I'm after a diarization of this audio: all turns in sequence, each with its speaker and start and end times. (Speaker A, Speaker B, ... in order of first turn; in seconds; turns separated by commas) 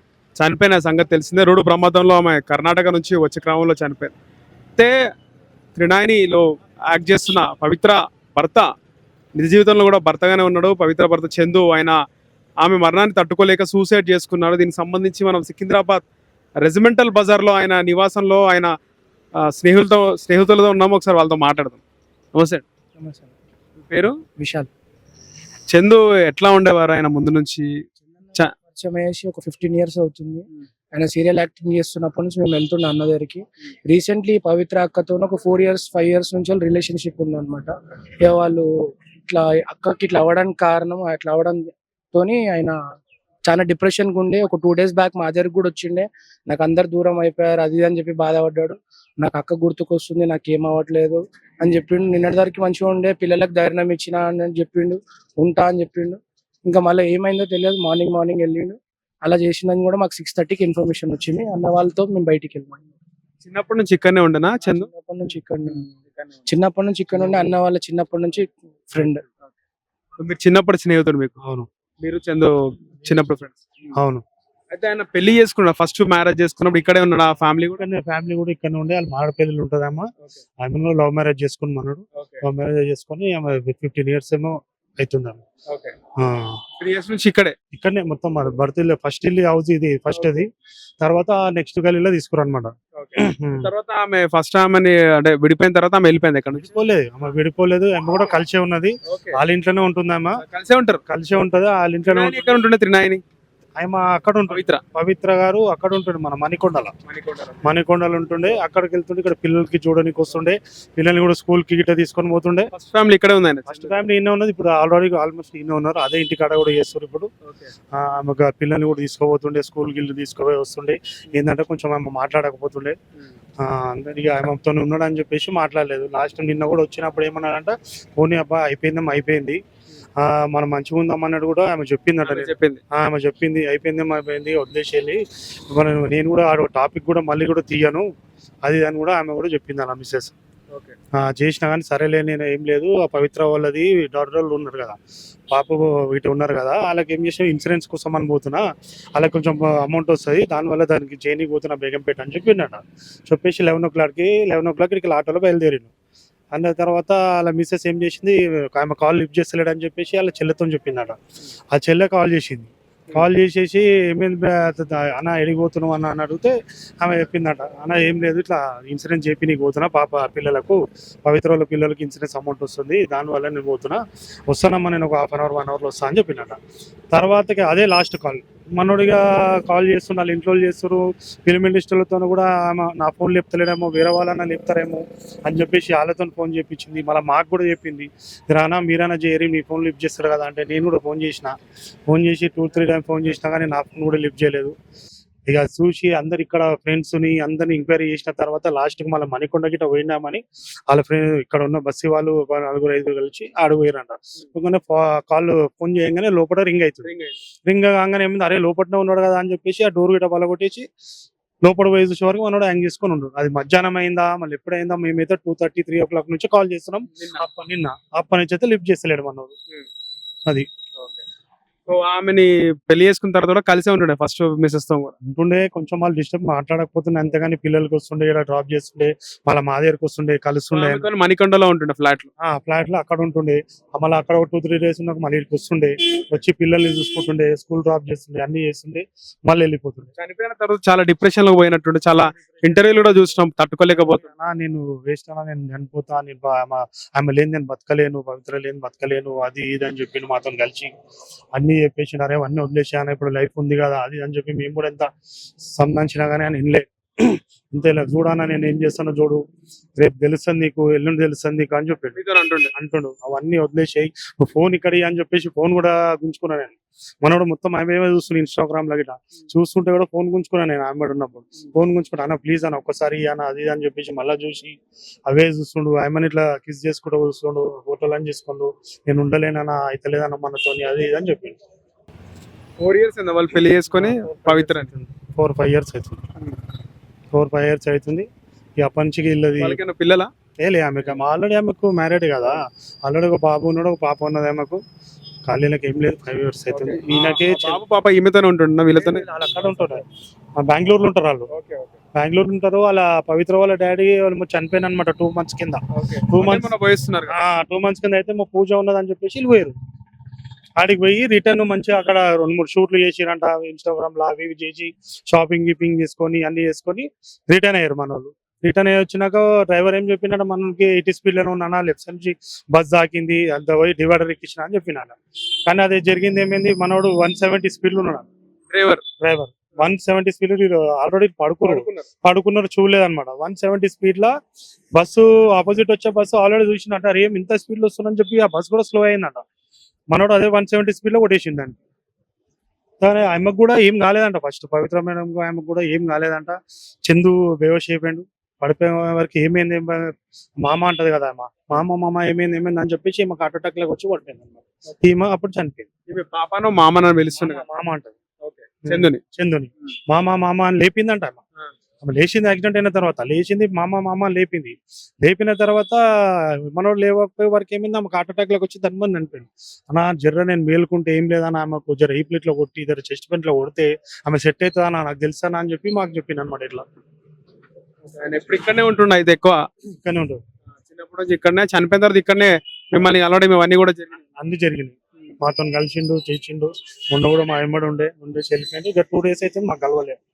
Speaker A: 0.4-4.1, Speaker A: 5.7-8.7, Speaker A: 9.3-11.9, Speaker A: 12.6-16.0, Speaker A: 16.6-18.7, Speaker A: 19.4-21.8, Speaker A: 22.3-22.6, Speaker B: 23.0-23.3, Speaker A: 23.8-24.2, Speaker B: 24.4-24.7, Speaker A: 25.7-27.7, Speaker B: 28.7-37.7, Speaker B: 38.2-38.6, Speaker B: 39.3-42.8, Speaker B: 43.5-62.9, Speaker A: 63.4-64.9, Speaker B: 64.7-65.9, Speaker A: 65.6-66.5, Speaker B: 66.5-69.2, Speaker A: 67.1-67.5, Speaker A: 70.2-71.3, Speaker A: 72.0-73.9, Speaker C: 73.9-74.2, Speaker A: 74.7-77.8, Speaker C: 77.8-80.1, Speaker C: 80.6-85.4, Speaker A: 82.2-82.4, Speaker A: 85.7-85.9, Speaker C: 86.2-86.6, Speaker A: 86.8-87.5, Speaker C: 87.7-90.5, Speaker A: 90.1-90.5, Speaker C: 91.0-93.7, Speaker A: 92.9-96.7, Speaker C: 96.5-100.4, Speaker A: 99.1-99.4, Speaker A: 100.4-101.0, Speaker C: 101.0-102.5, Speaker A: 102.0-103.2, Speaker C: 103.8-106.9, Speaker A: 104.5-104.8, Speaker A: 107.1-107.6, Speaker C: 107.6-112.7, Speaker A: 112.7-114.0, Speaker C: 113.7-117.3, Speaker A: 117.4-117.7, Speaker C: 117.9-123.0, Speaker C: 123.6-129.6, Speaker C: 130.2-138.1, Speaker A: 132.2-132.8, Speaker C: 138.6-140.3, Speaker C: 141.2-145.0, Speaker C: 145.5-155.9, Speaker C: 156.5-161.2, Speaker C: 161.7-176.6, Speaker C: 177.1-191.5, Speaker C: 192.1-194.7, Speaker C: 195.5-207.1, Speaker A: 207.0-207.4, Speaker C: 207.7-210.9, Speaker C: 211.6-219.5, Speaker A: 217.1-217.4, Speaker A: 221.0-221.2, Speaker A: 221.9-225.1, Speaker C: 225.2-231.1, Speaker A: 230.7-232.3, Speaker C: 232.4-240.1, Speaker A: 240.2-244.2, Speaker C: 242.4-242.7, Speaker C: 243.9-250.9, Speaker C: 251.5-255.1, Speaker C: 255.7-259.4, Speaker C: 260.0-262.2, Speaker A: 262.1-262.7, Speaker C: 262.7-281.6, Speaker A: 282.8-284.9, Speaker C: 283.9-286.2, Speaker C: 287.3-288.3, Speaker C: 288.8-289.8, Speaker A: 289.6-290.3, Speaker C: 290.6-294.8, Speaker C: 295.5-297.8, Speaker A: 296.7-299.4, Speaker C: 299.0-300.0, Speaker C: 300.6-301.5, Speaker A: 301.5-302.0, Speaker C: 302.1-306.7, Speaker A: 305.9-307.4, Speaker C: 307.3-309.7, Speaker C: 310.8-328.3, Speaker A: 328.7-329.0, Speaker C: 329.2-334.3, Speaker A: 331.6-332.1, Speaker C: 334.9-339.4, Speaker C: 340.1-341.8, Speaker C: 343.0-355.9, Speaker A: 356.1-357.6, Speaker C: 357.4-358.1, Speaker A: 358.4-359.2, Speaker C: 358.9-361.4, Speaker C: 362.0-376.8, Speaker A: 378.1-379.6, Speaker C: 379.9-380.4, Speaker A: 380.8-384.2, Speaker C: 384.4-390.2